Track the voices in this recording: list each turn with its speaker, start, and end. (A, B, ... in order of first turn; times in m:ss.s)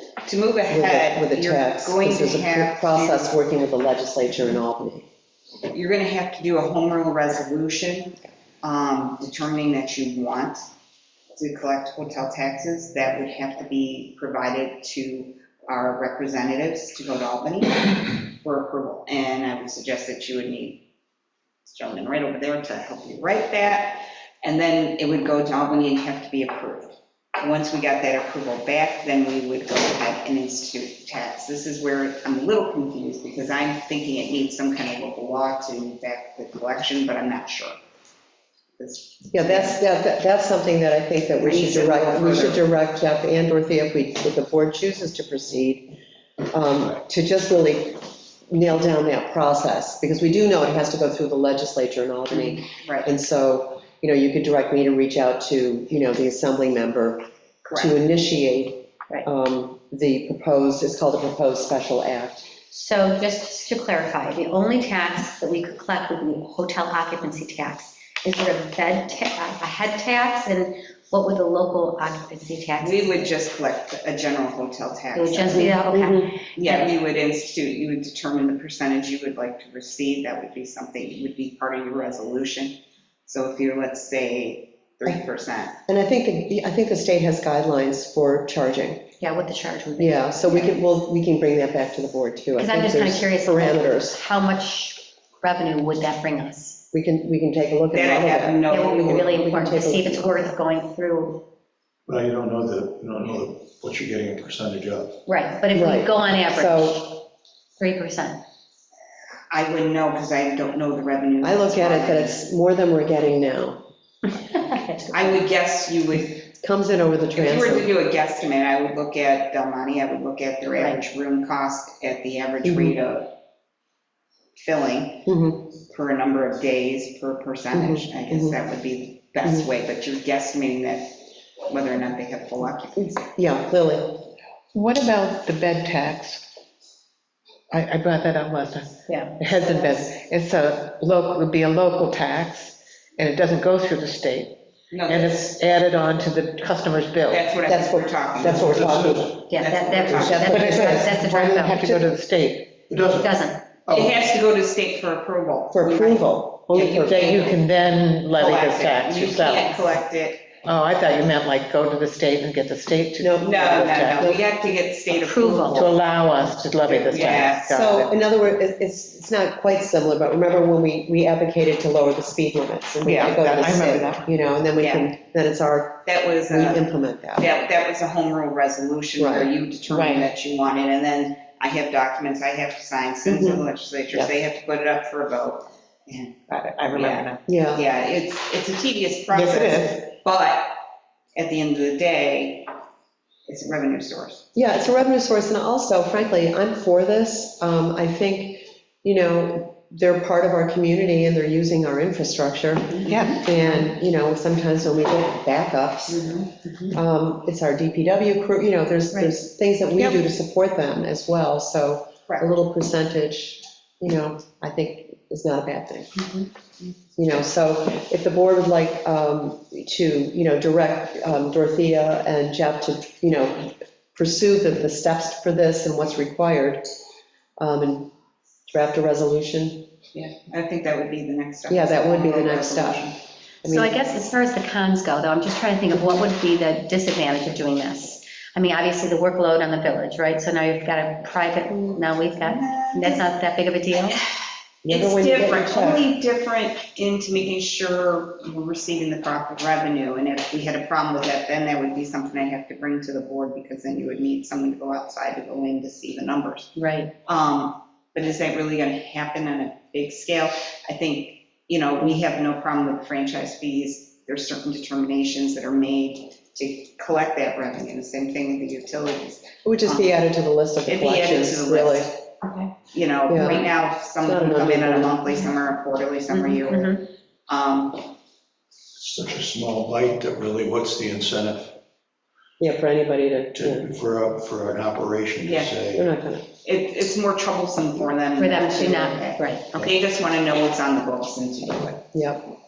0:00.2-0:03.4 A
0:00.7-0:05.0 B
0:05.7-0:10.6 A
0:11.3-0:20.8 A
0:21.6-0:37.8 A
0:38.8-0:39.8 A
0:39.3-0:45.9 B
0:41.4-0:42.6 A
0:46.5-0:57.2 B
0:52.6-0:53.1 A
0:57.6-0:58.0 A
0:57.7-1:02.5 B
1:02.7-1:13.2 C
1:12.8-1:15.8 A
1:15.1-1:16.9 C
1:15.5-1:16.3 B
1:16.5-1:25.8 A
1:25.8-1:29.1 B
1:29.2-1:30.6 C
1:30.0-1:34.2 B
1:30.5-1:30.7 A
1:32.6-1:36.8 C
1:36.9-1:38.7 B
1:37.9-1:39.4 A
1:38.7-1:41.4 C
1:39.2-1:40.5 B
1:42.0-1:45.2 D
1:45.2-1:47.2 C
1:45.7-1:47.2 B
1:47.8-1:48.4 C
1:49.5-1:52.4 A
1:51.4-1:53.8 B
1:54.3-1:55.4 C
1:55.1-1:56.4 A
1:56.6-1:57.9 B
1:57.3-2:03.3 A
2:00.7-2:01.0 C
2:02.6-2:03.0 B
2:04.6-2:05.3 A
2:05.2-2:05.7 B
2:05.9-2:13.2 A
2:07.7-2:08.6 B
2:13.0-2:14.3 B
2:14.7-2:16.5 E
2:17.7-2:27.5 E
2:19.1-2:19.4 C
2:24.9-2:25.4 A
2:27.3-2:30.5 A
2:27.6-2:29.4 B
2:28.4-2:29.5 D
2:29.5-2:31.8 C
2:30.1-2:31.1 B
2:30.4-2:32.7 E
2:31.8-2:32.0 B
2:32.9-2:34.2 D
2:33.2-2:33.8 C
2:33.9-2:37.6 A
2:35.7-2:37.3 B
2:36.7-2:39.9 E
2:38.3-2:40.5 A
2:40.6-2:44.3 E
2:43.2-2:44.4 B
2:43.4-2:46.0 A
2:45.1-2:45.9 C
2:45.7-2:48.2 E
2:47.0-2:47.7 A
2:47.1-2:57.5 B
2:53.0-2:54.2 E
2:54.8-2:55.1 A
2:56.0-3:10.8 A
2:59.2-2:59.5 B
2:59.9-3:00.3 E
3:03.2-3:04.3 B
3:06.5-3:07.4 E
3:07.4-3:07.8 B
3:09.3-3:10.1 E
3:11.4-3:12.7 A
3:13.5-3:14.4 A
3:14.5-3:36.1 B
3:23.1-3:23.4 E
3:23.1-3:23.9 C
3:26.1-3:27.0 C
3:36.1-3:36.5 C
3:37.2-3:46.8 B
3:47.6-3:48.1 B
3:48.7-3:49.9 B
3:50.1-3:53.1 A
3:51.7-3:53.1 B
3:53.6-3:53.9 B
3:53.6-4:04.2 C
4:02.4-4:03.3 A
4:04.8-4:06.1 B
4:04.9-4:16.7 A
4:16.8-4:17.1 C
4:17.2-4:30.2 A
4:29.6-4:32.1 B
4:30.9-4:32.1 A
4:32.4-4:32.7 C
4:32.9-4:38.2 A
4:33.3-4:35.2 B
4:33.4-4:33.6 C
4:36.3-4:37.1 C
4:39.0-4:41.8 D
4:42.6-4:43.9 B
4:43.5-4:46.1 D
4:45.4-4:45.7 A
4:45.9-4:46.5 B
4:46.6-4:52.0 A
4:48.4-4:49.7 C
4:52.1-4:52.5 B